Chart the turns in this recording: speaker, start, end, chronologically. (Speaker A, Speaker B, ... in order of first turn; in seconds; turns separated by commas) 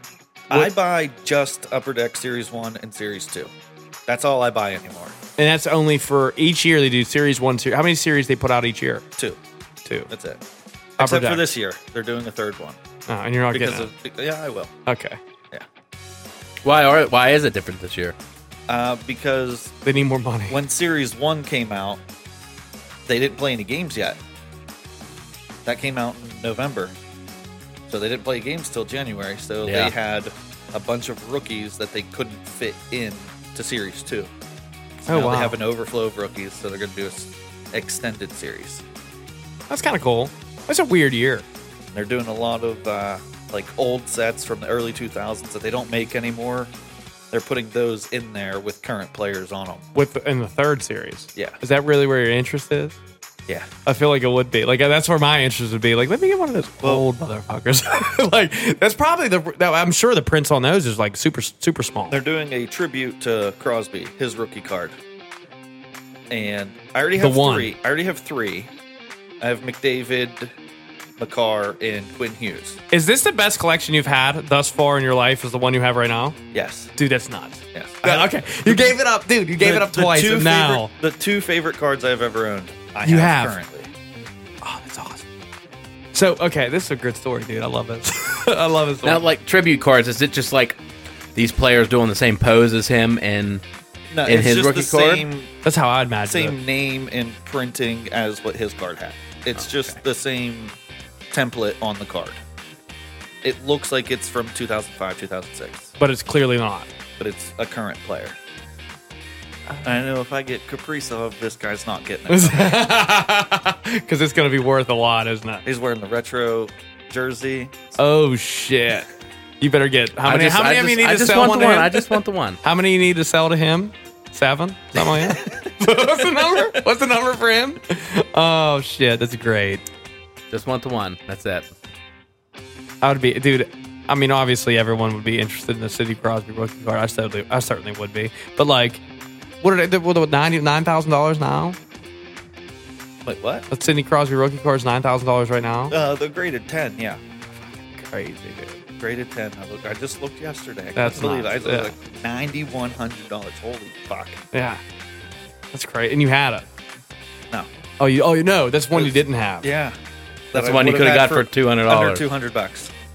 Speaker A: 0.5-3.5, Speaker A: 4.1-5.1, Speaker B: 5.4-9.0, Speaker A: 10.1-10.4, Speaker A: 11.0-12.8, Speaker B: 11.0-11.5, Speaker B: 13.1-13.9, Speaker A: 13.5-14.7, Speaker B: 14.8-15.2, Speaker C: 16.6-18.1, Speaker A: 18.7-19.7, Speaker B: 19.8-20.6, Speaker A: 20.5-22.0, Speaker A: 23.1-24.2, Speaker A: 25.6-26.9, Speaker A: 27.9-34.3, Speaker C: 29.6-29.9, Speaker B: 35.0-35.6, Speaker A: 35.1-38.8, Speaker B: 39.7-41.4, Speaker A: 41.9-46.7, Speaker A: 47.3-49.9, Speaker B: 49.9-53.0, Speaker B: 53.9-62.2, Speaker A: 62.1-64.9, Speaker A: 66.3-68.7, Speaker B: 67.2-67.7, Speaker A: 69.4-70.5, Speaker A: 71.2-72.8, Speaker B: 72.9-76.4, Speaker A: 76.5-76.9, Speaker B: 77.0-80.9, Speaker A: 77.7-79.0, Speaker A: 79.6-83.9, Speaker B: 83.0-83.5, Speaker B: 84.6-85.2, Speaker B: 86.1-89.2, Speaker C: 89.0-90.8, Speaker C: 91.3-93.6, Speaker A: 94.1-95.5, Speaker C: 94.2-95.2, Speaker B: 95.6-96.6, Speaker A: 96.3-100.7, Speaker A: 101.3-102.4, Speaker A: 103.4-105.9, Speaker B: 106.0-106.9, Speaker A: 107.2-108.3, Speaker A: 109.8-112.9, Speaker B: 112.3-115.6, Speaker A: 115.6-118.0, Speaker B: 118.0-119.1, Speaker B: 119.6-129.8, Speaker C: 120.2-122.6, Speaker A: 125.1-125.7, Speaker A: 126.5-126.8, Speaker C: 130.5-131.7, Speaker B: 133.0-139.0, Speaker B: 139.6-141.8, Speaker A: 143.2-143.7, Speaker B: 143.7-145.9, Speaker A: 145.9-147.2, Speaker B: 147.9-148.8, Speaker A: 149.0-154.4, Speaker B: 150.9-151.9, Speaker B: 154.5-154.8, Speaker B: 155.7-156.7, Speaker B: 158.0-159.7, Speaker A: 158.9-159.9, Speaker A: 160.5-162.9, Speaker C: 160.5-162.2